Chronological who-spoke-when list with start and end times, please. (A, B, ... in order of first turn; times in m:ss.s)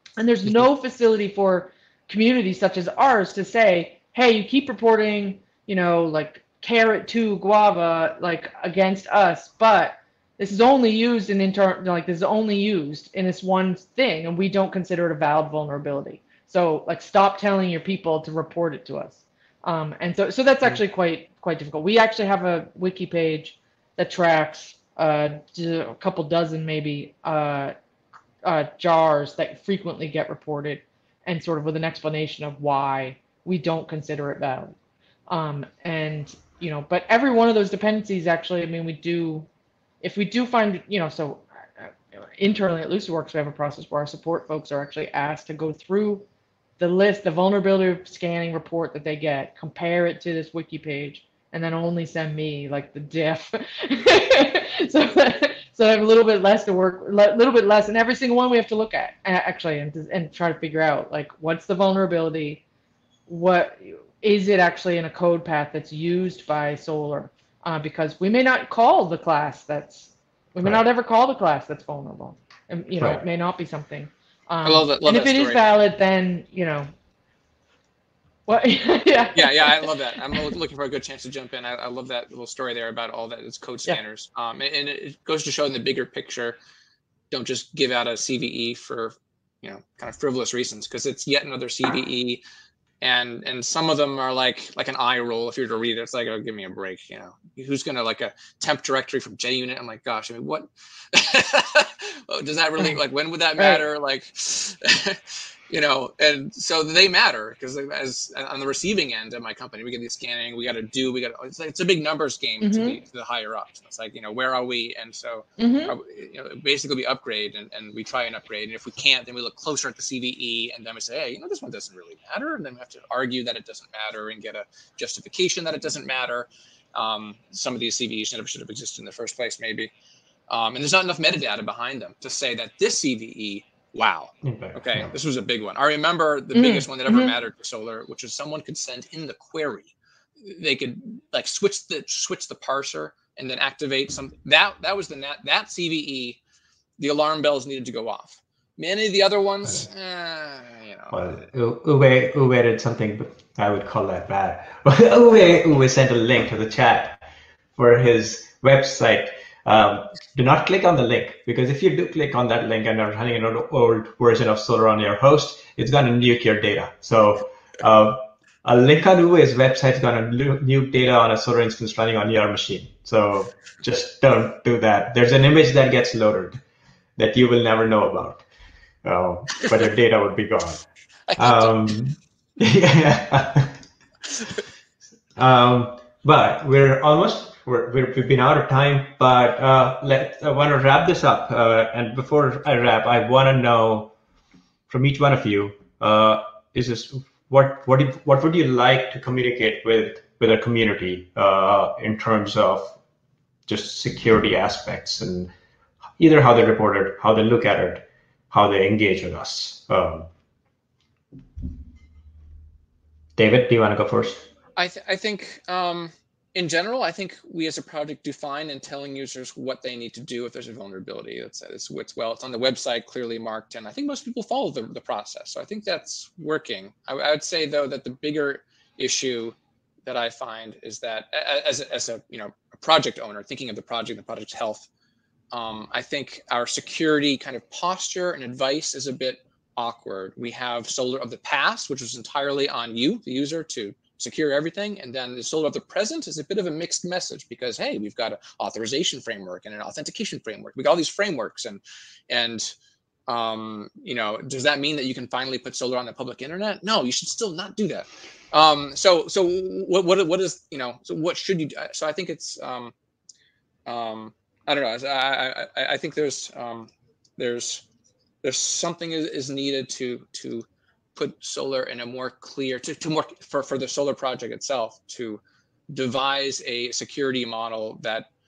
0:00.2-0:27.8 A
0:28.4-0:34.8 A
0:35.3-0:39.5 A
0:40.0-0:46.2 A
0:46.8-1:02.6 A
1:03.3-1:16.9 A
1:14.6-1:15.7 B
1:18.5-1:20.4 A
1:19.4-1:26.6 B
1:27.3-1:32.4 B
1:33.0-2:09.9 B
1:52.6-1:53.0 A
1:55.6-1:55.9 A
2:10.5-2:26.4 B
2:14.4-2:15.1 C
2:16.5-2:17.3 A
2:27.0-2:31.3 B
2:31.1-2:37.2 C
2:37.8-2:56.6 C
2:57.2-2:58.4 C
2:59.0-3:00.8 C
3:01.3-3:01.9 B
3:01.4-3:03.8 C
3:05.4-3:14.1 C
3:14.9-3:23.0 C
3:23.7-3:25.5 C
3:26.2-3:30.3 C
3:33.4-3:34.5 C
3:34.8-3:54.9 B
3:55.5-4:12.7 B
4:13.3-4:22.9 B
4:23.9-4:27.8 B
4:28.4-4:38.3 B